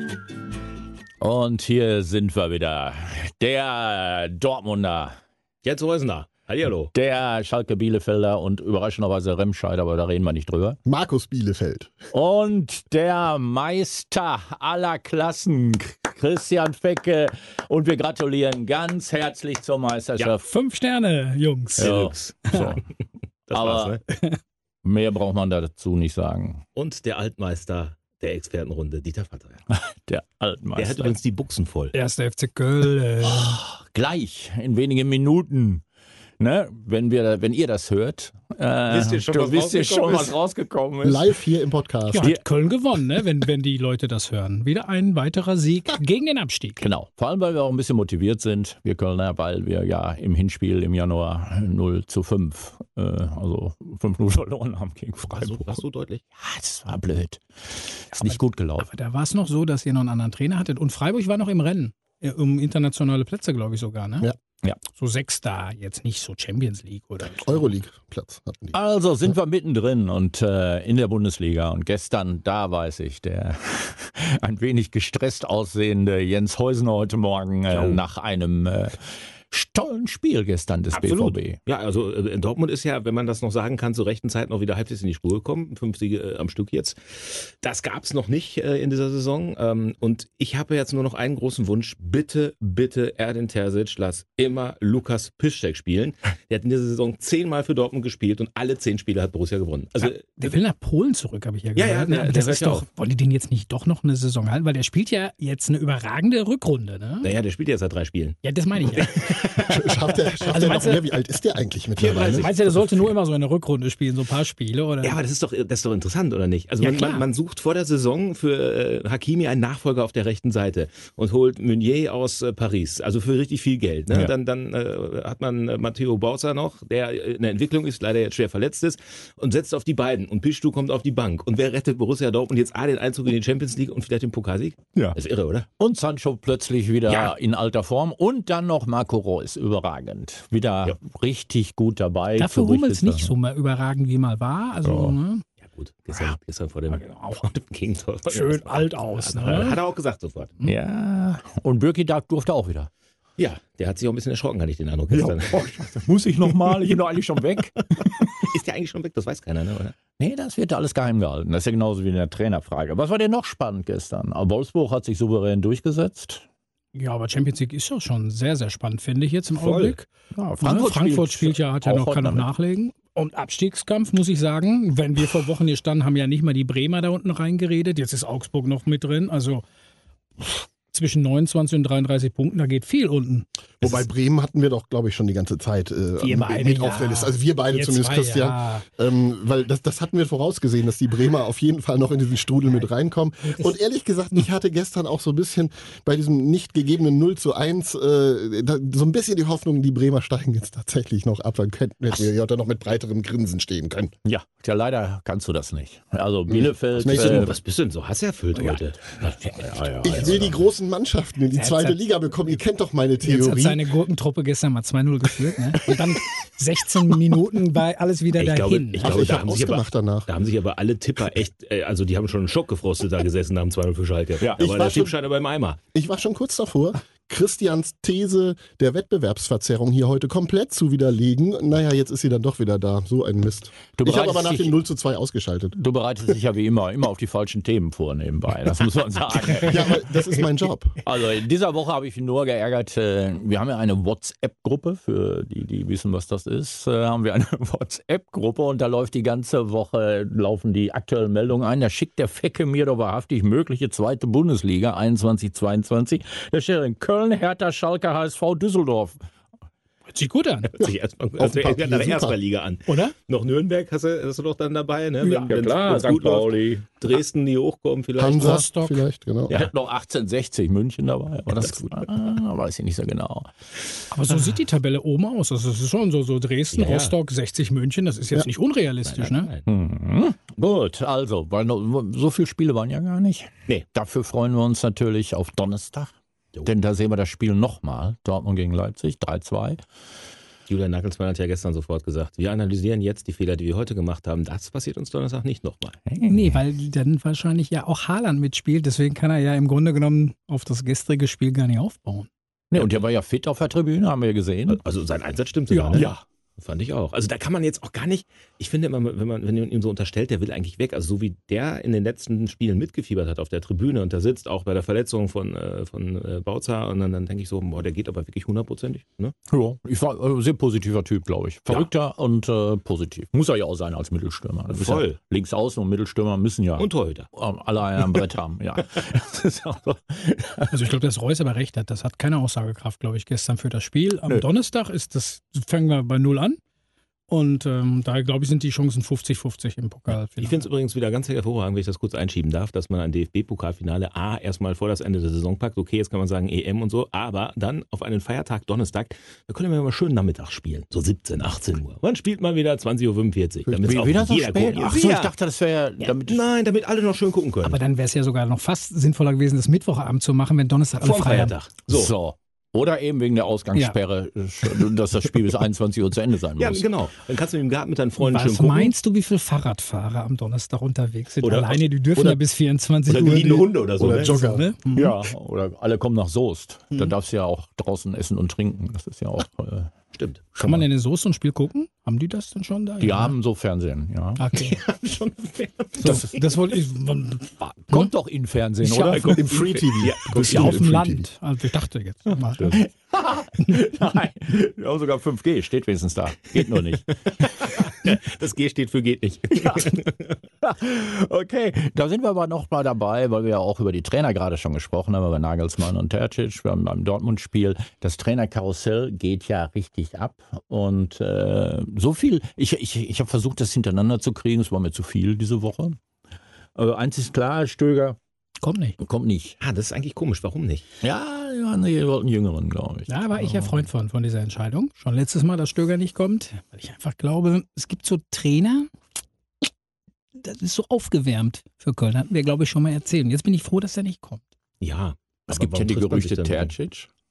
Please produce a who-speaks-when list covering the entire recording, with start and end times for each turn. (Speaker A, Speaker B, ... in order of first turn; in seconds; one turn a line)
Speaker A: 1.2-5.2
Speaker B: 5.6-6.9
Speaker A: 6.9-10.8
Speaker C: 10.8-11.9
Speaker A: 12.1-20.5
Speaker D: 20.4-21.9
Speaker B: 21.8-22.6
Speaker A: 21.8-22.8
Speaker B: 23.5-24.0
Speaker A: 23.5-24.0
Speaker D: 24.1-24.4
Speaker A: 24.8-26.6
Speaker B: 26.8-29.6
Speaker A: 29.7-31.1
Speaker B: 30.8-31.9
Speaker D: 31.9-33.6
Speaker A: 33.2-35.8
Speaker A: 36.4-41.3
Speaker B: 38.9-40.3
Speaker C: 41.0-42.3
Speaker D: 42.1-46.8
Speaker A: 46.8-55.8
Speaker B: 55.3-56.2
Speaker A: 56.4-58.9
Speaker D: 58.1-64.3
Speaker D: 64.9-67.7
Speaker C: 67.4-69.3
Speaker A: 68.7-81.6
Speaker B: 77.7-78.0
Speaker B: 80.9-100.4
Speaker D: 100.0-107.3
Speaker B: 101.8-102.8
Speaker B: 107.2-110.0
Speaker D: 108.4-111.1
Speaker C: 109.7-112.6
Speaker B: 110.5-110.8
Speaker B: 112.0-112.8
Speaker D: 112.0-115.2
Speaker B: 115.0-135.7
Speaker D: 116.8-117.2
Speaker A: 135.8-143.3
Speaker D: 142.3-145.4
Speaker A: 144.8-145.2
Speaker B: 145.6-150.5
Speaker D: 146.9-147.5
Speaker D: 148.3-149.8
Speaker A: 150.6-152.9
Speaker B: 153.4-155.6
Speaker A: 155.1-157.8
Speaker B: 158.4-160.0
Speaker A: 160.2-166.4
Speaker D: 166.9-170.1
Speaker A: 169.6-172.5
Speaker D: 170.6-179.6
Speaker D: 180.4-183.4
Speaker C: 183.8-204.1
Speaker D: 186.2-188.8
Speaker A: 204.2-207.6
Speaker C: 206.5-207.5
Speaker B: 207.0-210.5
Speaker A: 209.4-210.6
Speaker C: 210.0-213.8
Speaker D: 211.5-212.0
Speaker D: 213.2-219.2
Speaker B: 218.3-225.8
Speaker C: 219.0-220.3
Speaker A: 224.4-224.6
Speaker C: 224.6-225.1
Speaker C: 225.9-235.8
Speaker A: 234.0-234.8
Speaker A: 235.7-240.1
Speaker C: 239.6-241.0
Speaker A: 241.0-259.2
Speaker D: 260.1-260.7
Speaker B: 260.7-268.6
Speaker C: 261.4-262.4
Speaker D: 262.9-263.1
Speaker A: 265.2-266.9
Speaker D: 265.2-265.5
Speaker C: 268.2-269.5
Speaker D: 268.3-269.0
Speaker A: 269.5-273.5
Speaker B: 271.5-271.8
Speaker D: 274.1-279.5
Speaker B: 276.7-277.1
Speaker B: 279.1-279.6
Speaker A: 279.6-286.1
Speaker A: 286.6-289.8
Speaker B: 290.7-296.0
Speaker A: 296.1-296.6
Speaker D: 296.2-302.3
Speaker A: 302.7-304.8
Speaker B: 304.7-319.3
Speaker D: 305.7-306.1
Speaker A: 305.9-306.2
Speaker A: 319.5-330.8
Speaker B: 324.7-325.2
Speaker B: 326.8-327.3
Speaker D: 330.7-336.6
Speaker D: 337.3-340.6
Speaker B: 340.4-355.3
Speaker C: 353.7-354.0
Speaker A: 353.8-356.4
Speaker B: 356.0-357.8
Speaker D: 357.6-361.5
Speaker B: 361.0-362.1
Speaker A: 361.9-366.9
Speaker B: 366.6-368.9
Speaker D: 368.2-375.2
Speaker B: 371.4-371.8
Speaker B: 373.1-374.5
Speaker C: 374.0-374.7
Speaker A: 374.9-379.9
Speaker B: 380.1-380.5
Speaker A: 380.5-380.9
Speaker D: 380.6-383.3
Speaker A: 383.0-384.4
Speaker D: 384.4-384.8
Speaker B: 384.6-386.3
Speaker A: 386.0-386.3
Speaker D: 386.0-388.1
Speaker A: 387.9-389.4
Speaker D: 388.8-389.6
Speaker B: 389.1-390.9
Speaker C: 389.3-391.3
Speaker D: 390.4-392.8
Speaker A: 392.6-397.1
Speaker B: 397.3-400.3
Speaker A: 399.5-400.0
Speaker A: 400.6-416.0
Speaker A: 416.8-418.2
Speaker D: 418.6-419.0
Speaker A: 419.0-419.6
Speaker B: 419.6-420.8
Speaker A: 421.0-423.8
Speaker D: 423.1-428.9
Speaker D: 430.4-434.4
Speaker B: 434.8-436.7
Speaker A: 435.5-437.1